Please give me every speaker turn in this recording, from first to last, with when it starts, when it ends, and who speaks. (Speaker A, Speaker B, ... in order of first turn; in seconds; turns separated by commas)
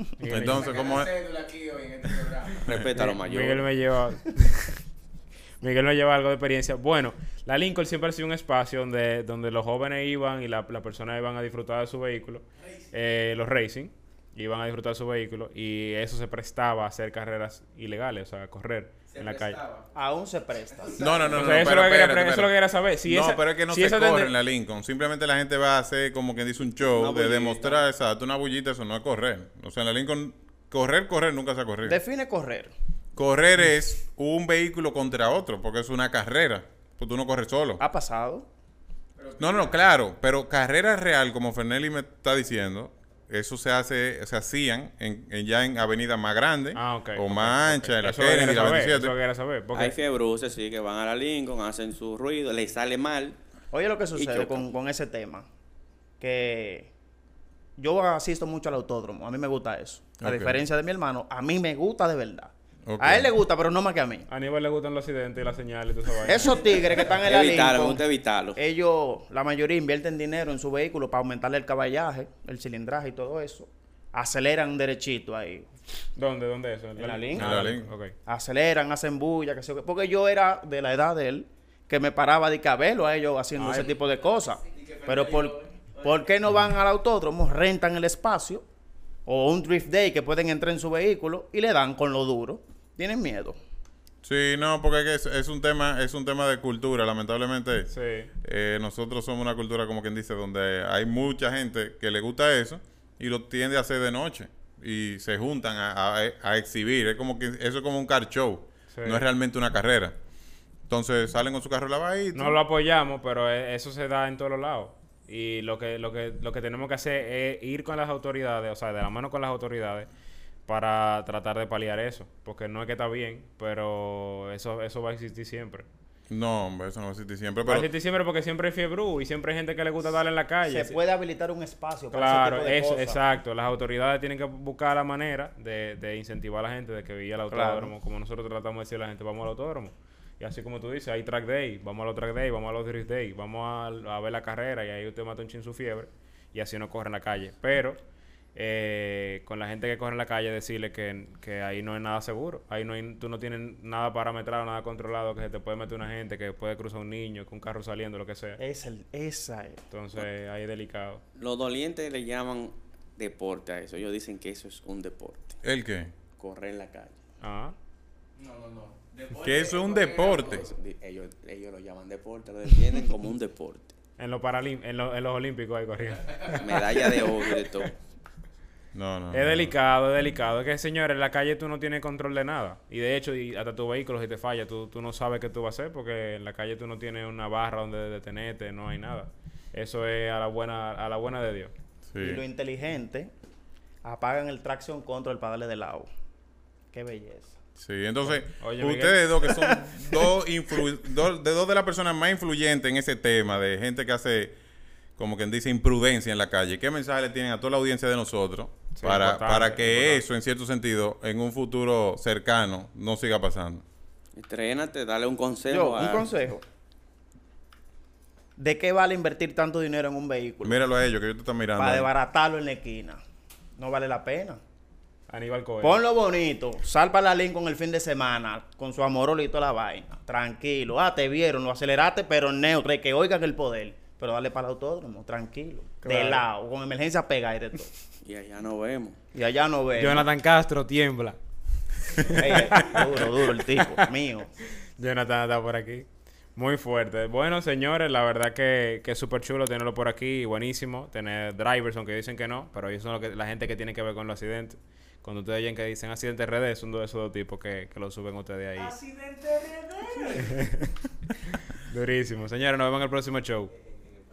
Speaker A: 0.2-0.9, Speaker B: 0.2-1.2, Speaker C: 0.7-2.6, Speaker D: 2.6-3.7, Speaker A: 2.9-4.8, Speaker A: 5.6-19.6, Speaker C: 19.2-19.8, Speaker E: 19.9-21.3, Speaker B: 20.9-32.0, Speaker A: 21.3-24.3, Speaker D: 26.8-27.8, Speaker E: 31.9-32.7, Speaker B: 33.2-37.8, Speaker E: 37.8-38.5, Speaker C: 39.2-39.5, Speaker B: 39.4-49.2, Speaker A: 46.8-50.0, Speaker D: 49.7-53.4, Speaker E: 53.7-55.5, Speaker D: 54.1-54.7, Speaker E: 56.2-56.9, Speaker E: 57.8-64.3, Speaker B: 60.2-60.6, Speaker B: 62.9-63.3, Speaker A: 64.3-66.9, Speaker E: 66.2-75.7, Speaker D: 67.2-68.6, Speaker A: 76.2-78.2, Speaker E: 77.0-77.5, Speaker B: 77.3-77.9, Speaker E: 78.3-88.6, Speaker A: 83.6-84.0, Speaker C: 84.7-85.9, Speaker E: 89.3-93.6, Speaker B: 94.2-97.9, Speaker A: 97.9-98.3, Speaker B: 98.4-110.2, Speaker A: 108.9-109.3, Speaker B: 110.9-112.6, Speaker A: 112.3-120.1, Speaker A: 120.7-125.9, Speaker B: 126.3-127.9, Speaker A: 127.7-131.0, Speaker E: 130.6-133.2, Speaker A: 132.1-148.0, Speaker E: 137.5-137.9, Speaker A: 148.6-158.6, Speaker E: 158.6-159.8, Speaker A: 159.9-161.2, Speaker D: 161.4-165.6, Speaker B: 165.6-166.1, Speaker D: 166.4-167.2, Speaker A: 167.4-167.8, Speaker C: 168.4-170.5, Speaker B: 169.3-170.7, Speaker D: 170.3-173.9, Speaker A: 174.2-177.1, Speaker D: 176.4-177.9, Speaker B: 178.9-179.7, Speaker A: 179.3-191.7, Speaker B: 192.1-192.4, Speaker E: 192.2-193.3, Speaker E: 194.0-196.1, Speaker E: 196.9-197.6, Speaker B: 197.8-204.6, Speaker A: 198.2-199.5, Speaker B: 205.2-213.8, Speaker A: 208.9-210.2, Speaker D: 214.4-216.4, Speaker E: 215.7-216.6, Speaker E: 218.6-220.8, Speaker B: 220.6-222.1, Speaker E: 221.8-223.2, Speaker E: 223.8-224.6, Speaker A: 225.3-226.0, Speaker E: 225.8-237.9, Speaker A: 236.0-236.5, Speaker D: 238.2-239.2, Speaker E: 239.3-240.3, Speaker A: 239.9-241.4, Speaker A: 242.1-244.0, Speaker E: 242.2-244.5, Speaker A: 244.9-259.0, Speaker E: 259.0-260.4, Speaker A: 260.3-261.0, Speaker A: 261.6-263.7